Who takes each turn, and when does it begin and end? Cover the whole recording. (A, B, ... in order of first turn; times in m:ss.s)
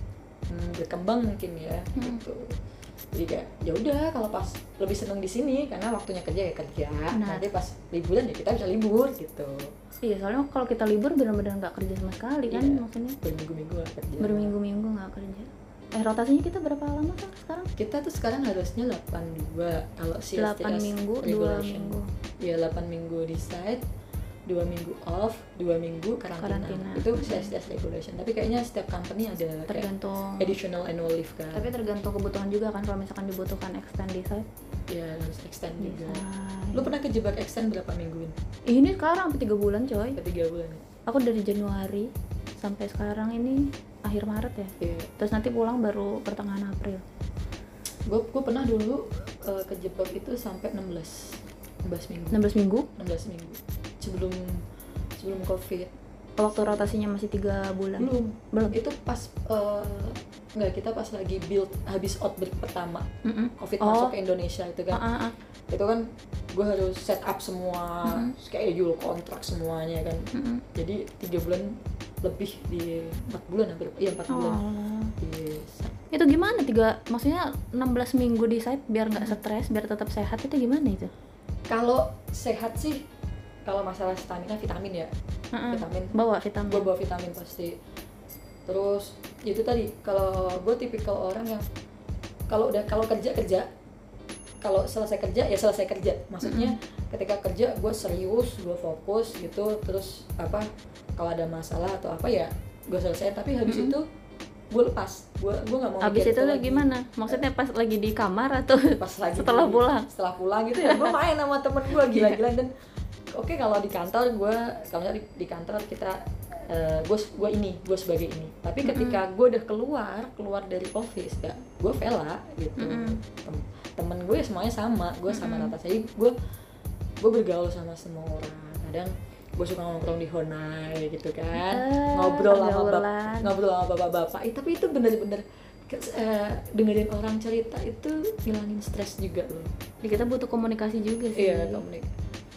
0:00.5-0:02.5 A
0:02.0-0:02.2 B
0:03.1-0:09.7 A
0:07.1-0:07.5 B
0:10.0-0:13.2 B
0:12.5-0:14.5 A
0:14.2-0:17.7 B
0:17.8-0:23.8 A
0:20.4-0:22.1 B
0:24.5-0:31.7 A
0:26.4-0:27.5 B
0:29.7-0:30.5 B
0:31.5-0:34.5 B
0:34.9-0:36.2 A
0:35.8-0:36.9 B
0:36.7-0:38.3 A
0:38.7-0:40.2 B
0:40.1-0:40.8 A
0:41.0-0:47.0 B
0:44.8-0:45.1 A
0:48.1-0:52.4 A
0:52.3-0:52.9 B
0:53.0-0:54.4 A
0:55.2-0:55.9 A
0:56.4-0:58.8 B
0:56.5-0:56.9 A
0:58.0-1:03.1 A
1:03.2-1:04.1 B
1:03.6-1:05.0 A
1:04.9-1:05.4 B
1:05.7-1:06.0 A
1:06.6-1:10.2 A
1:08.1-1:08.3 B
1:10.3-1:10.6 B
1:10.7-1:14.6 A
1:14.3-1:15.1 B
1:15.2-1:16.0 A
1:16.1-1:21.1 B
1:21.7-1:23.0 A
1:23.7-1:25.1 A
1:25.5-1:26.9 B
1:25.7-1:26.1 A
1:26.7-1:27.7 A
1:28.7-1:31.6 A
1:32.5-1:33.7 A
1:34.6-1:44.0 A
1:36.4-1:36.7 B
1:43.6-1:44.0 B
1:44.7-1:47.4 A
1:46.0-1:50.1 B
1:48.9-1:52.7 A
1:50.8-1:51.2 B
1:52.0-1:52.4 B
1:53.3-1:56.2 A
1:56.7-2:06.3 A
1:58.8-1:59.2 B
2:02.8-2:03.2 B
2:05.3-2:05.7 B
2:07.2-2:19.7 A
2:11.6-2:13.5 B
2:20.0-2:21.8 B
2:21.3-2:22.1 A